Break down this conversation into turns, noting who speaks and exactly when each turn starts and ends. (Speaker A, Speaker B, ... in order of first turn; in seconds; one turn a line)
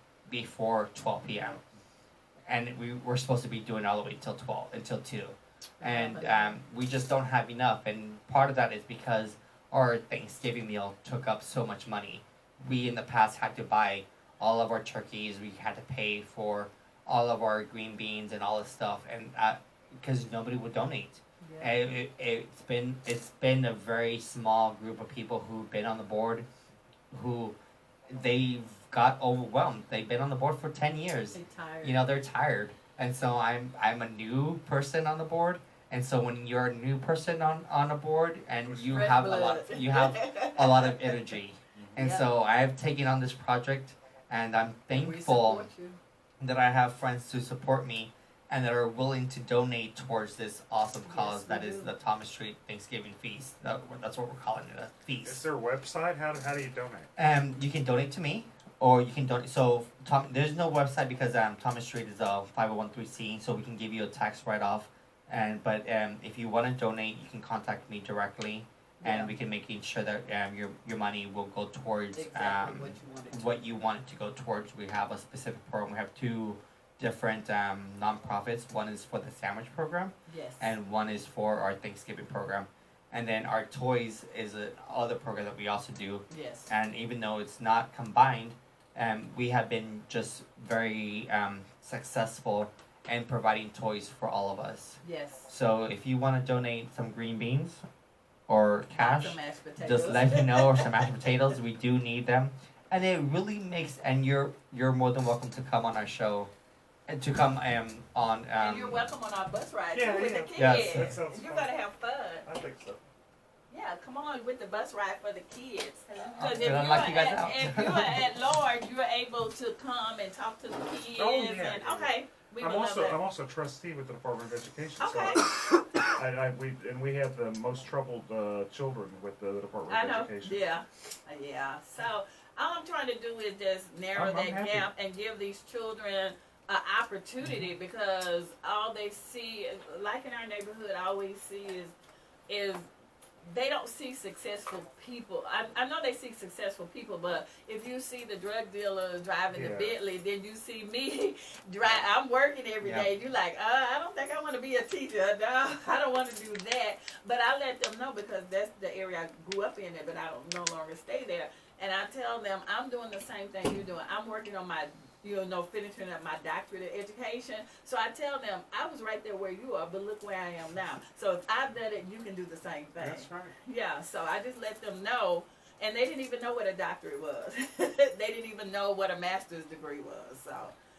Speaker A: 0.3-1.6
Speaker A: 2.5-26.5
Speaker B: 5.8-6.6
Speaker B: 21.4-21.8
Speaker A: 27.1-27.5
Speaker A: 28.1-45.7
Speaker B: 31.3-32.0
Speaker C: 38.6-39.1
Speaker B: 38.9-41.2
Speaker B: 42.0-42.2
Speaker B: 44.9-46.0
Speaker A: 46.4-55.4
Speaker B: 51.0-51.9
Speaker C: 55.2-57.1
Speaker A: 57.2-97.8
Speaker B: 69.0-69.3
Speaker B: 72.1-73.6
Speaker B: 80.3-80.7
Speaker B: 86.3-86.7
Speaker B: 95.0-95.5
Speaker A: 98.5-106.5
Speaker B: 99.0-101.1
Speaker A: 107.1-109.1
Speaker B: 108.6-112.5
Speaker C: 109.9-111.7
Speaker A: 110.6-111.2
Speaker C: 112.4-113.0
Speaker B: 113.7-123.2
Speaker A: 116.4-118.2
Speaker C: 121.1-130.6
Speaker B: 125.0-126.1
Speaker B: 129.9-141.9
Speaker C: 134.1-134.9
Speaker C: 137.4-137.7
Speaker B: 142.5-142.9
Speaker B: 143.4-180.7
Speaker C: 149.5-149.9
Speaker A: 152.8-153.1
Speaker C: 173.0-173.6